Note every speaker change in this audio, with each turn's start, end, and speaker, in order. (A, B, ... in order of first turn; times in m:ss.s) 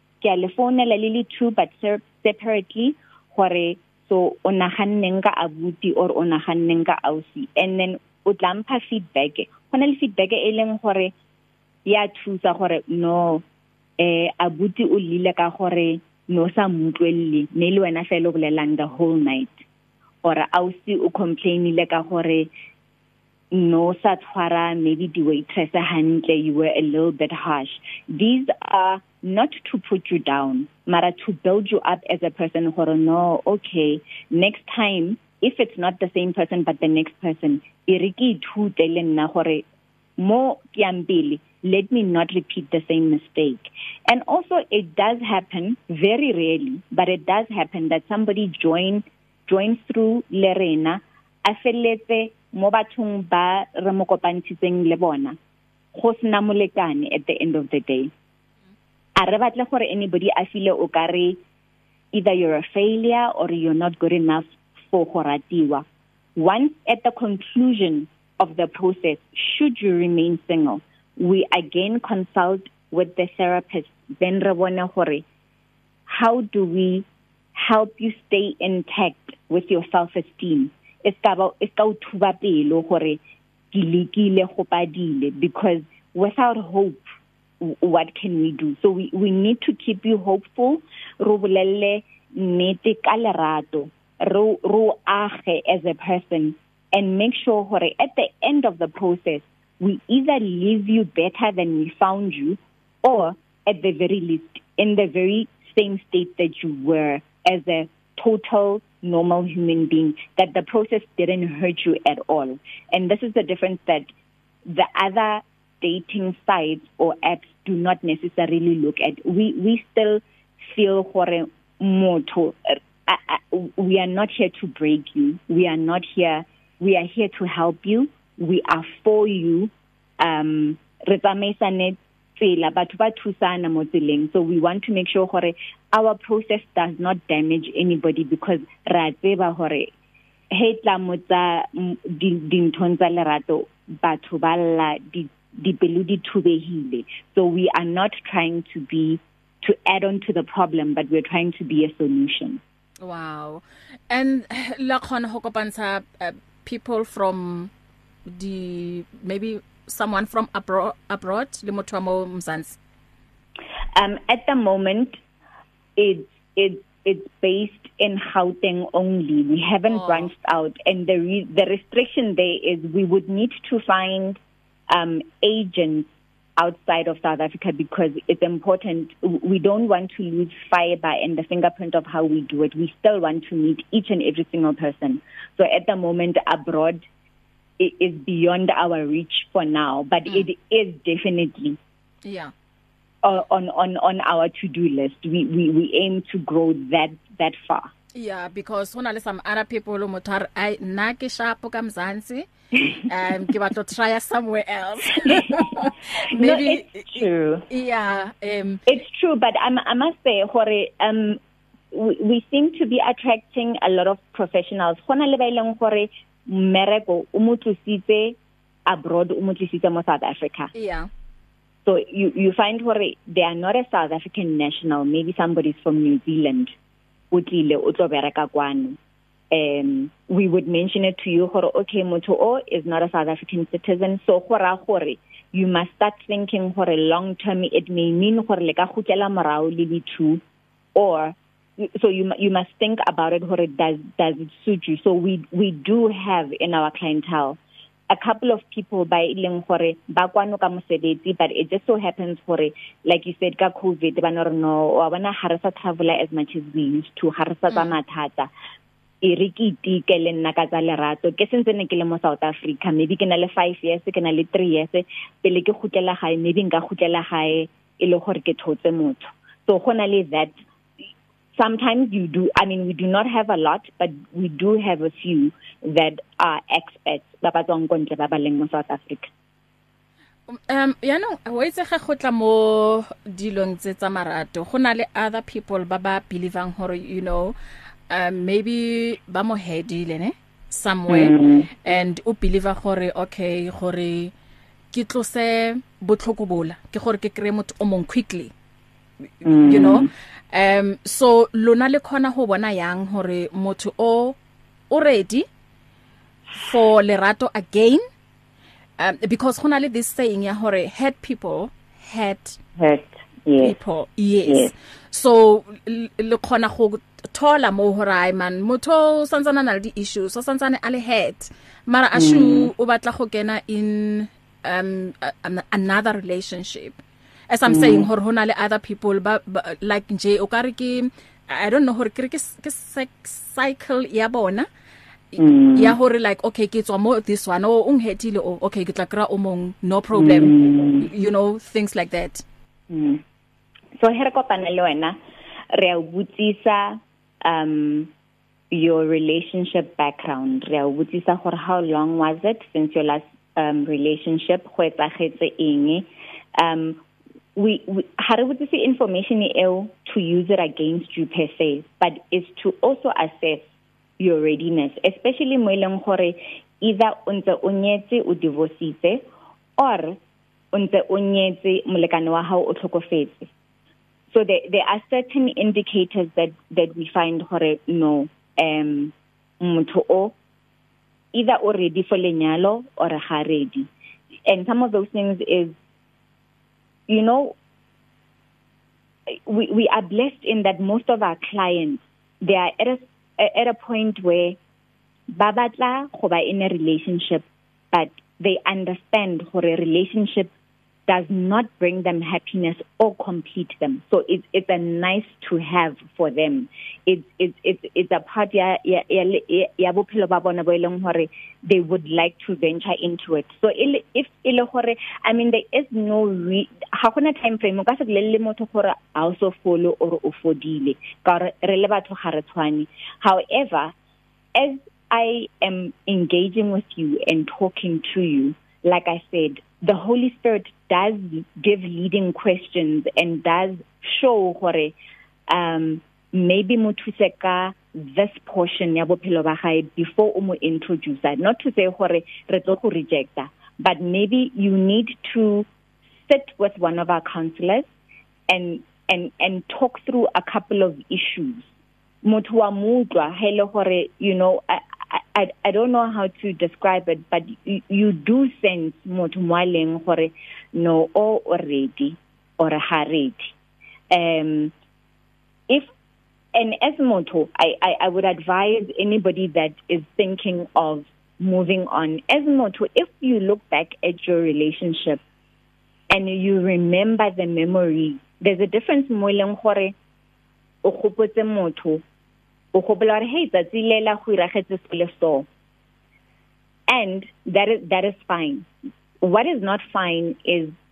0:00.2-0:11.1 A
0:11.8-0:13.4 A
0:14.0-0:19.6 A
0:20.2-0:22.5 A
0:23.5-0:39.6 A
0:40.2-0:55.4 A
0:55.9-0:58.1 A
0:59.2-1:01.4 A
1:02.1-1:05.8 A
1:06.4-1:15.2 A
1:16.1-1:23.2 A
1:23.7-1:27.0 A
1:27.6-1:54.1 A
1:54.6-2:19.9 A
2:20.5-2:32.6 A
2:33.0-2:37.7 B
2:38.3-2:42.8 B
2:43.9-2:45.2 A
2:46.0-3:07.0 A
2:49.9-2:50.3 B
3:07.8-3:11.8 A
3:12.2-3:12.5 B
3:13.2-3:17.9 A
3:18.1-3:28.8 B
3:25.3-3:27.6 A
3:28.9-3:31.4 A
3:31.9-3:40.7 A
3:40.7-3:41.1 B
3:41.8-3:46.7 A
3:47.3-3:49.0 A
3:49.5-4:00.4 A
4:00.9-4:07.6 A
4:08.1-4:18.5 A
4:17.7-4:17.9 B
4:19.2-4:30.5 A
4:31.5-4:39.3 A
4:40.5-4:47.5 B
4:48.1-4:54.3 B
4:51.1-4:51.7 A
4:54.9-4:58.5 B
4:59.4-5:04.4 B
4:59.4-5:00.1 A
5:04.9-5:05.5 B
5:06.5-5:08.0 B
5:09.0-5:12.6 B
5:12.8-5:13.8 A
5:13.6-5:27.0 B
5:14.4-5:14.7 A
5:22.1-5:22.7 A
5:27.5-5:34.7 B
5:27.7-5:28.1 A
5:35.3-5:42.4 B
5:35.4-5:36.0 A
5:40.1-5:41.1 A
5:42.9-5:43.2 A
5:43.9-5:45.2 A
5:45.7-5:48.1 A
5:48.7-5:57.0 A
5:57.5-6:03.7 A
6:04.2-6:09.2 A
6:09.8-6:10.2 A
6:10.7-6:13.5 A
6:14.3-6:20.4 A
6:21.3-6:23.9 A
6:24.4-6:25.8 A
6:27.1-6:27.6 A
6:29.3-6:34.6 A
6:35.3-6:40.5 A
6:41.1-7:03.9 A
7:04.5-7:14.9 A
7:15.5-7:25.7 A
7:26.2-7:27.9 A
7:28.5-7:31.7 A
7:32.2-7:43.5 A
7:44.1-7:44.7 A
7:46.5-7:55.2 A
7:56.1-7:59.9 A
8:00.8-8:02.0 A
8:02.7-8:05.5 A
8:06.9-8:08.7 A
8:09.2-8:10.7 A